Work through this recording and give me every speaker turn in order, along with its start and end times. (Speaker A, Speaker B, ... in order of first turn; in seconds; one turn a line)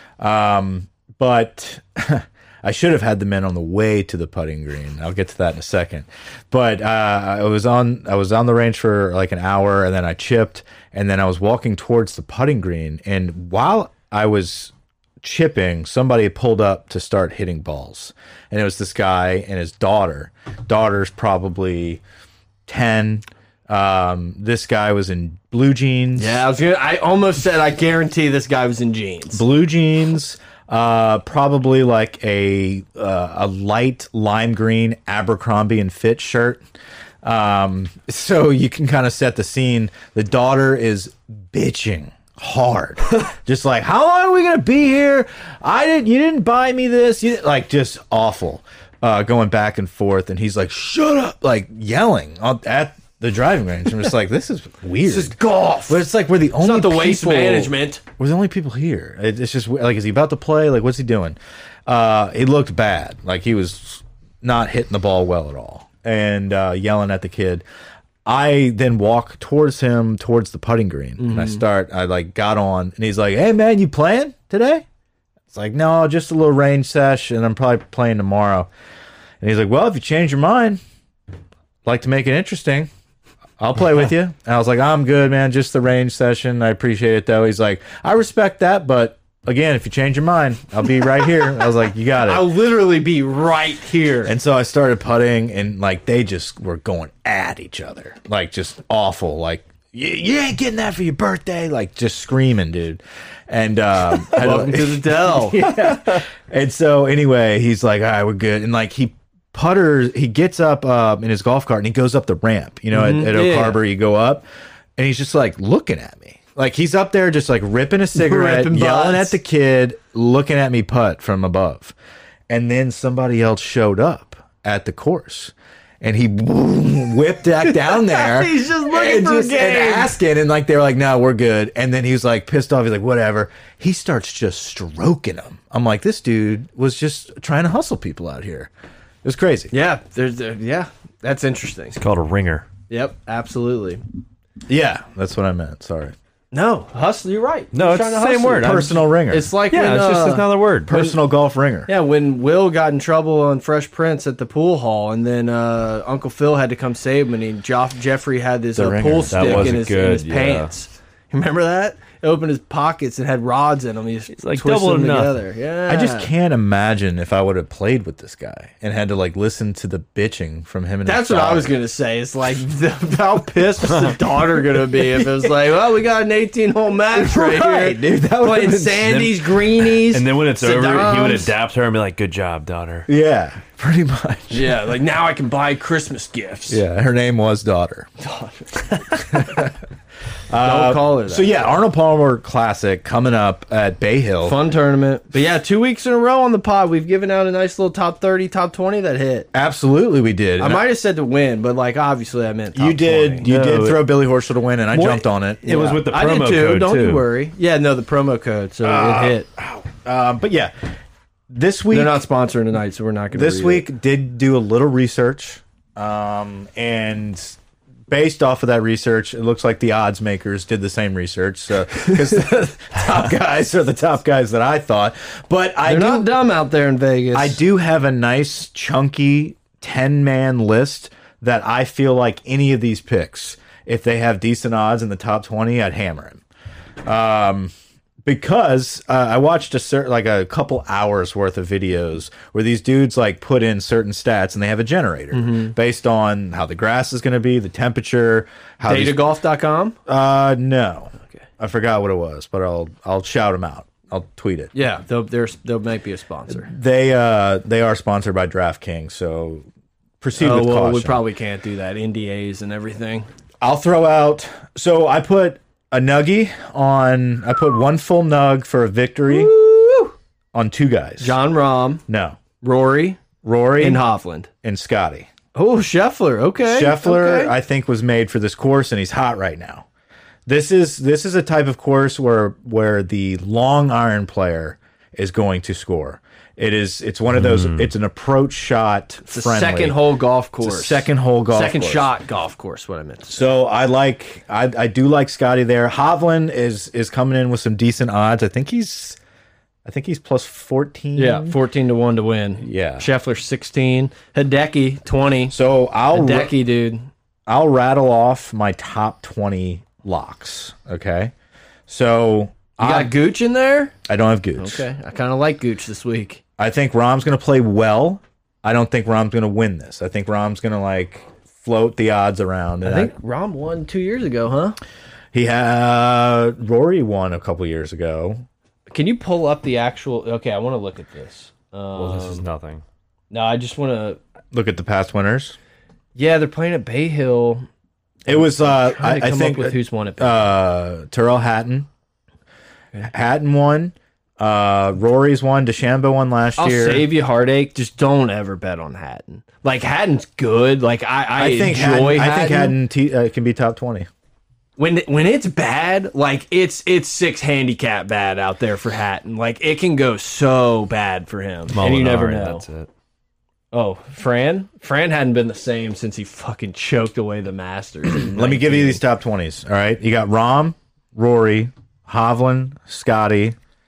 Speaker A: 0.2-22.0
Speaker A: 22.7-26.4
Speaker B: 26.2-29.4
Speaker A: 29.3-36.6
Speaker A: 37.2-67.6
Speaker B: 55.0-56.1
Speaker B: 56.6-58.0
Speaker A: 68.2-74.8
Speaker B: 71.2-71.6
Speaker A: 75.5-78.7
Speaker A: 79.4-80.8
Speaker A: 81.8-82.9
Speaker A: 83.6-92.5
Speaker B: 92.2-94.3
Speaker A: 94.2-114.4
Speaker B: 104.3-106.2
Speaker B: 112.9-113.8
Speaker A: 115.0-121.9
Speaker B: 118.1-119.4
Speaker A: 122.5-138.7
Speaker B: 127.7-130.2
Speaker A: 139.2-139.7
Speaker B: 139.7-142.0
Speaker C: 141.9-142.7
Speaker B: 142.9-144.0
Speaker A: 144.7-146.1
Speaker B: 146.5-151.1
Speaker C: 147.7-149.0
Speaker A: 148.6-149.5
Speaker C: 149.7-150.9
Speaker A: 150.9-151.9
Speaker B: 151.8-166.3
Speaker A: 158.8-159.8
Speaker C: 159.3-160.7
Speaker C: 164.3-165.4
Speaker A: 165.9-171.7
Speaker B: 171.0-181.5
Speaker C: 173.9-174.2
Speaker A: 177.1-179.3
Speaker C: 179.1-183.1
Speaker A: 183.1-184.9
Speaker B: 184.5-186.8
Speaker A: 186.7-188.1
Speaker B: 188.2-189.6
Speaker A: 189.1-189.8
Speaker A: 190.5-194.6
Speaker B: 190.6-191.6
Speaker B: 194.4-199.5
Speaker A: 199.5-200.8
Speaker B: 200.6-203.5
Speaker A: 202.7-206.0
Speaker C: 203.4-204.1
Speaker C: 204.9-207.3
Speaker B: 205.6-209.5
Speaker A: 208.8-210.7
Speaker A: 211.5-212.2
Speaker B: 211.9-213.9
Speaker A: 213.3-217.6
Speaker A: 218.1-226.3
Speaker B: 225.8-227.6
Speaker A: 227.3-236.4
Speaker A: 237.0-237.7
Speaker A: 238.2-249.2
Speaker B: 245.3-245.7
Speaker B: 248.8-250.0
Speaker A: 250.1-254.7
Speaker B: 254.7-256.7
Speaker A: 256.5-259.6
Speaker A: 260.2-261.2
Speaker B: 260.4-263.3
Speaker A: 263.6-269.5
Speaker B: 269.3-270.1
Speaker A: 270.5-271.4
Speaker B: 271.2-272.0
Speaker A: 272.1-272.4
Speaker B: 272.6-273.2
Speaker A: 273.4-274.0
Speaker B: 273.8-274.5
Speaker A: 274.6-275.3
Speaker B: 275.5-277.5
Speaker A: 276.6-279.9
Speaker A: 280.4-290.0
Speaker C: 287.4-287.9
Speaker B: 289.3-293.4
Speaker A: 290.6-292.1
Speaker A: 293.3-299.2
Speaker A: 299.8-301.6
Speaker B: 301.1-305.5
Speaker A: 302.6-303.1
Speaker A: 305.5-306.5
Speaker B: 306.1-307.1
Speaker A: 307.5-311.3
Speaker A: 311.9-313.1
Speaker B: 312.8-313.9
Speaker A: 314.1-314.9
Speaker B: 314.6-316.4
Speaker A: 316.6-323.1
Speaker B: 322.8-324.8
Speaker A: 325.3-328.4
Speaker B: 328.9-332.4
Speaker C: 331.9-332.8
Speaker B: 333.3-334.2
Speaker A: 334.5-335.6
Speaker B: 336.1-337.6
Speaker A: 338.2-341.9
Speaker B: 338.3-340.5
Speaker A: 343.0-347.1
Speaker B: 346.6-352.7
Speaker A: 351.4-354.1
Speaker B: 354.8-362.6
Speaker C: 361.7-362.9
Speaker B: 363.7-369.0
Speaker A: 368.0-373.6